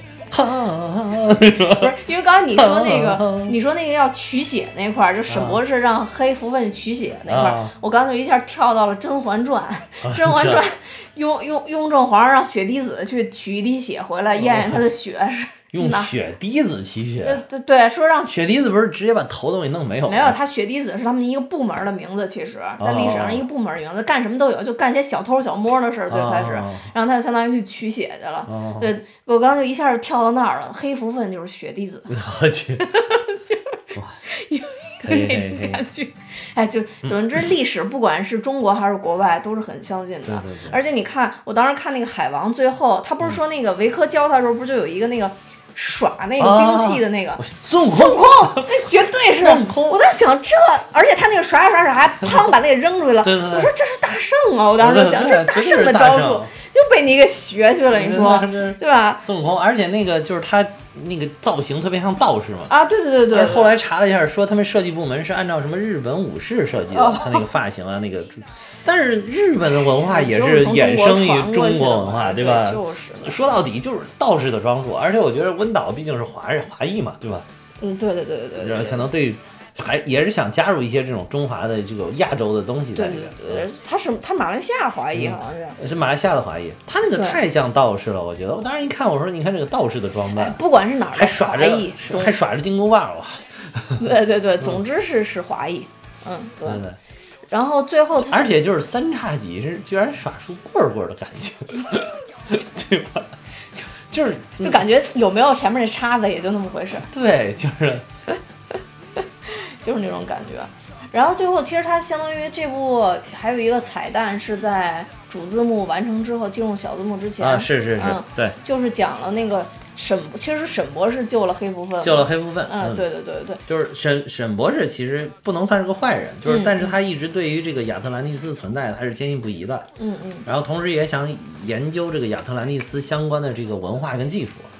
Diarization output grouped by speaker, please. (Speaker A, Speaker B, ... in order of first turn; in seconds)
Speaker A: 0.3-2.0, 2.5-3.6, 5.3-5.6, 7.3-7.7, 10.0-10.6, 14.4-14.8, 15.7-17.4, 18.3-20.4, 22.8-23.5, 26.1-26.9, 28.5-28.9, 32.1-32.9, 35.0-35.8, 40.2-40.8, 46.4-50.0, 53.2-53.7, 54.8-56.5, 57.9-62.7, 63.3-77.5, 78.6-83.7, 85.1-90.6, 91.1-94.8, 96.6-97.0, 98.2-103.3, 104.1-104.8, 107.1-108.0, 117.4-118.5, 122.0-123.1, 123.7-129.9, 130.4-134.7
Speaker B: 1.7-16.1, 17.2-18.4, 20.1-32.2, 32.8-59.2, 62.7-63.8, 66.9-67.5, 70.0-73.5, 77.8-79.0, 82.9-85.8, 87.1-87.4, 90.3-92.3, 94.0-96.8, 97.5-98.6, 104.6-107.1, 109.4-123.6, 126.4-127.0, 130.0-130.5